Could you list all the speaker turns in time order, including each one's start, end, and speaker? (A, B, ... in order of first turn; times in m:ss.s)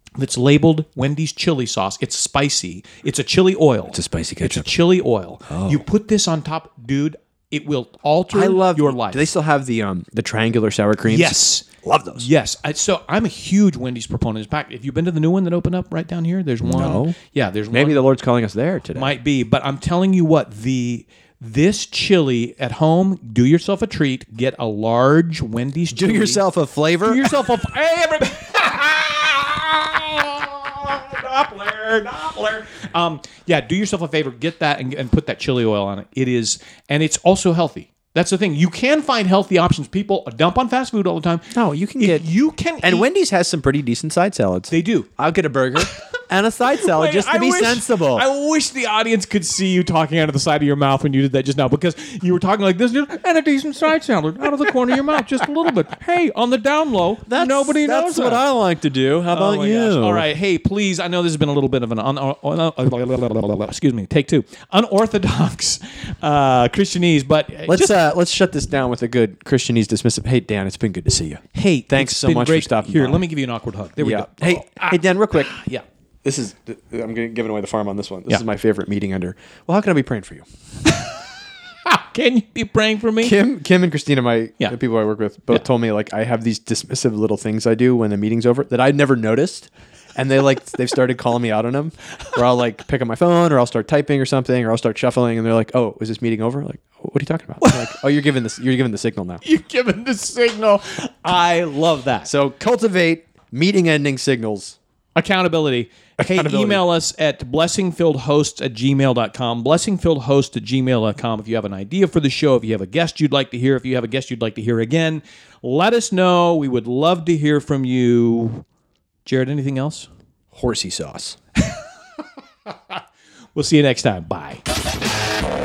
0:00.2-0:09.3 A
0:03.9-0:04.8 B
0:05.5-0:05.8 B
0:08.3-0:12.3 B
0:11.0-0:11.6 A
0:12.2-0:18.0 A
0:16.6-0:17.2 B
0:17.7-0:19.1 B
0:18.9-0:26.4 A
0:25.9-0:27.3 B
0:27.0-0:43.1 A
0:41.5-0:42.3 B
0:42.8-0:48.2 B
0:44.7-0:45.1 A
0:46.7-0:58.4 A
0:57.3-1:00.3 B
0:59.3-1:08.0 A
1:07.7-1:13.2 B
1:11.5-1:15.8 A
1:14.0-1:15.6 B
1:16.2-1:20.4 B
1:20.8-1:21.1 A
1:21.8-1:23.4 A
1:23.2-1:39.4 B
1:37.6-1:38.0 A
1:39.4-1:42.3 A
1:42.2-1:44.8 B
1:45.2-1:58.6 A
1:46.2-1:46.8 B
1:59.2-2:00.1 A
2:00.5-2:01.4 B
2:02.7-2:03.0 A
2:03.5-2:04.6 A